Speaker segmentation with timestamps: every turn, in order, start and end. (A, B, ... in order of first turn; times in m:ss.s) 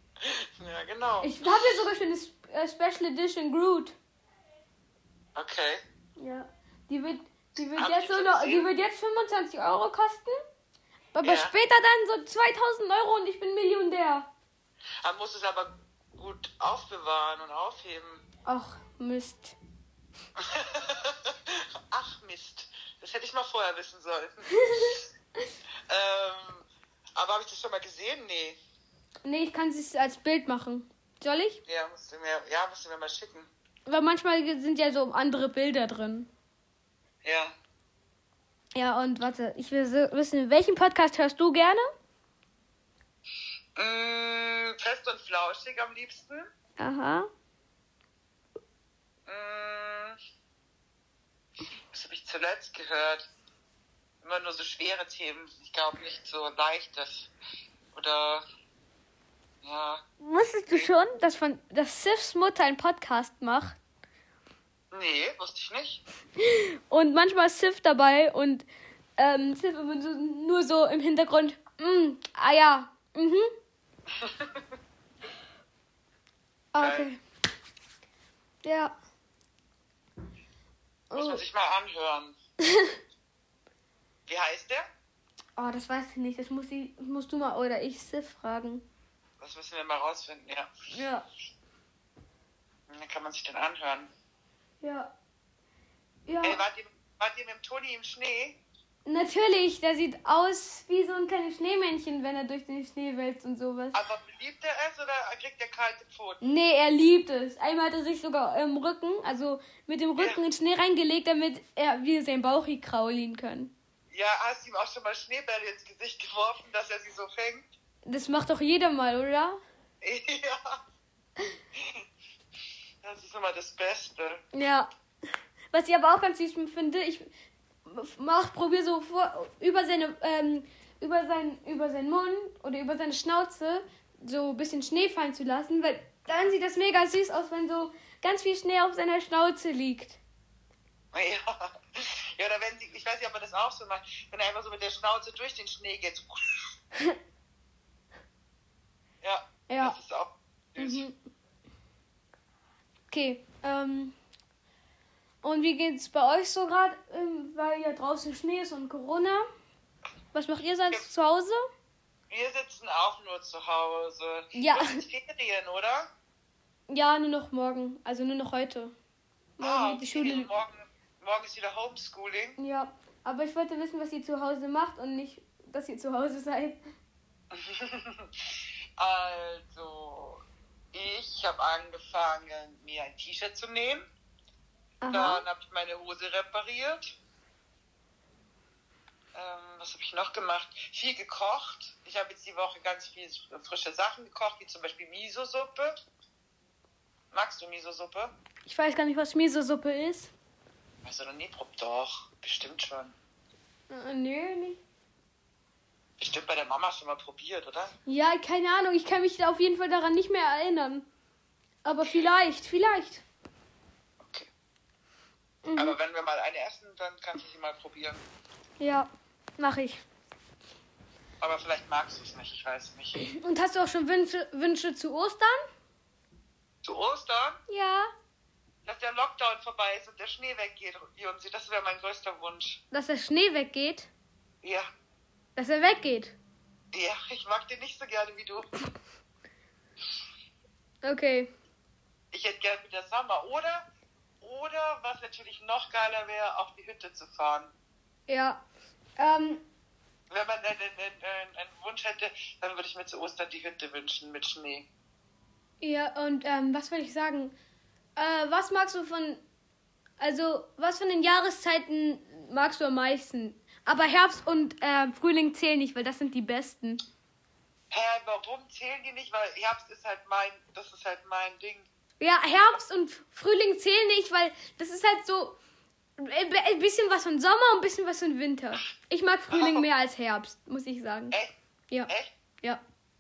0:00.2-0:01.6 A
0:01.2-0:04.0 B
0:05.4-0:05.8 A
0:06.2-0:10.4 B
0:07.8-0:08.7 A
0:11.2-0:14.3 B
0:11.2-0:11.5 A
0:15.0-0:18.2 A
0:18.5-0:19.6 B
0:20.4-0:25.0 A
0:24.5-0:25.0 B
0:25.9-0:28.6 A
0:29.2-0:31.6 B
0:31.7-0:33.5 A
0:33.9-0:36.3 B
0:37.2-0:37.6 A
0:38.8-0:41.9 B
0:43.8-0:46.5 A
0:46.8-0:47.3 B
0:49.3-0:50.2 A
0:51.9-0:53.3 A
0:54.2-0:57.3 A
0:57.9-0:58.4 A
0:59.6-1:00.0 A
1:00.2-1:03.8 B
1:04.9-1:06.0 A
1:06.4-1:08.7 B
1:09.2-1:13.5 B
1:14.1-1:14.7 A
1:16.7-1:17.2 B
1:16.8-1:17.1 A
1:18.6-1:18.9 B
1:21.1-1:21.4 B
1:21.1-1:22.4 A
1:22.6-1:23.0 B
1:24.3-1:24.9 A
1:25.6-1:28.8 B
1:29.4-1:30.7 A
1:30.9-1:31.3 B
1:32.9-1:34.1 A
1:34.8-1:35.1 B
1:36.3-1:36.6 B
1:36.4-1:38.6 A
1:39.1-1:44.0 B
1:43.9-1:46.4 A
1:46.4-1:53.7 B
1:54.1-1:57.7 A
1:58.1-1:59.6 B
2:00.0-2:00.8 A
2:01.8-2:02.0 A
2:03.0-2:04.4 A
2:04.5-2:04.9 B
2:05.7-2:07.3 B
2:07.8-2:20.2 B
2:21.1-2:26.8 A
2:29.2-2:31.1 A
2:29.7-2:30.0 B
2:30.8-2:31.1 B
2:33.1-2:34.2 B
2:35.4-2:39.5 B
2:40.3-2:41.6 B
2:42.3-2:46.1 A
2:44.5-2:45.0 B
2:46.9-2:48.9 B
2:49.6-2:50.5 B
2:49.6-2:52.6 A
2:52.6-2:56.8 B
2:57.5-2:58.4 A
2:59.0-3:04.1 A
3:05.0-3:05.4 B
3:05.1-3:07.2 A
3:09.3-3:16.0 A
3:17.3-3:18.3 A
3:18.7-3:20.3 B
3:21.0-3:23.2 A
3:23.9-3:24.8 B
3:26.2-3:28.0 A
3:28.1-3:31.1 B
3:31.8-3:33.2 B
3:34.2-3:34.5 A
3:35.6-3:36.0 B
3:35.8-3:38.2 A
3:38.8-3:40.0 B
3:41.4-3:43.2 A
3:43.2-3:45.6 B
3:46.8-3:47.6 A
3:47.7-3:48.1 B
3:48.9-3:52.8 A
3:52.9-3:54.1 B
3:54.6-3:54.9 A
3:55.6-3:56.4 B
3:56.9-3:58.7 A
4:01.0-4:01.5 B
4:02.3-4:03.8 A
4:04.4-4:07.7 A
4:08.3-4:08.6 B
4:09.2-4:09.6 B
4:10.3-4:14.9 A
4:15.8-4:17.6 B
4:18.2-4:19.4 B
4:20.2-4:27.0 B
4:27.9-4:31.9 A
4:32.2-4:35.6 B
4:36.2-4:41.4 B
4:39.5-4:39.9 A